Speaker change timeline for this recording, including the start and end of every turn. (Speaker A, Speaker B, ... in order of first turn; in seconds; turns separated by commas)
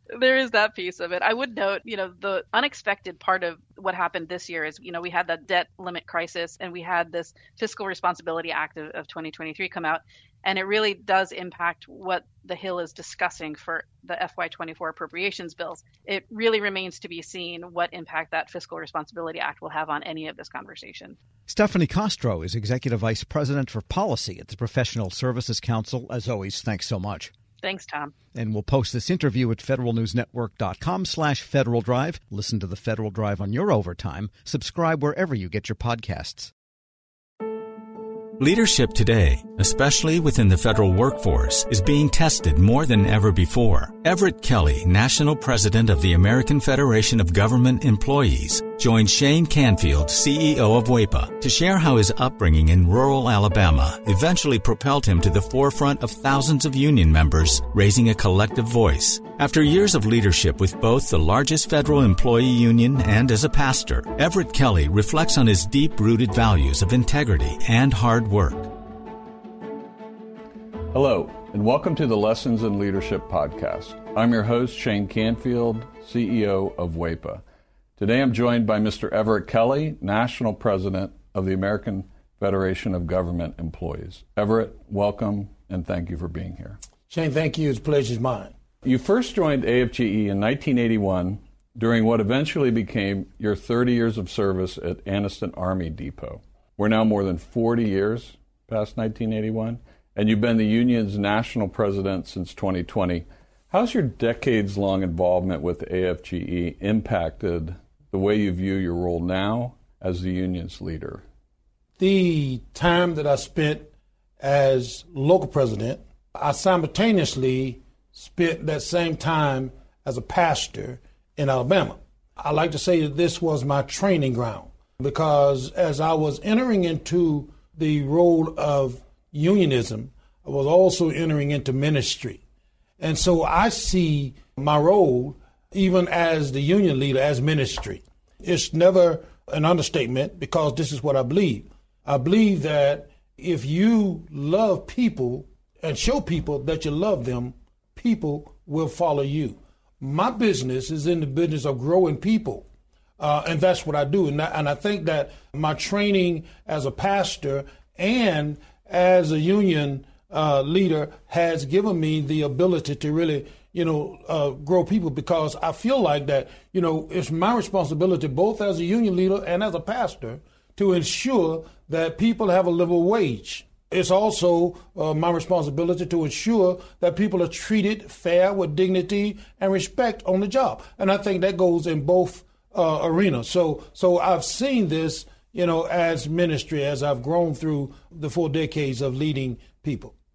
Speaker A: 0.1-21.2, Speaker B: 21.5-27.3, Speaker A: 27.6-28.1, Speaker B: 28.3-36.5, Speaker C: 38.4-68.7, Speaker D: 70.9-77.4, Speaker D: 78.0-86.8, Speaker E: 87.1-88.5, Speaker D: 88.8-111.2, Speaker E: 112.0-132.4, Speaker E: 133.0-152.6, Speaker E: 153.2-190.1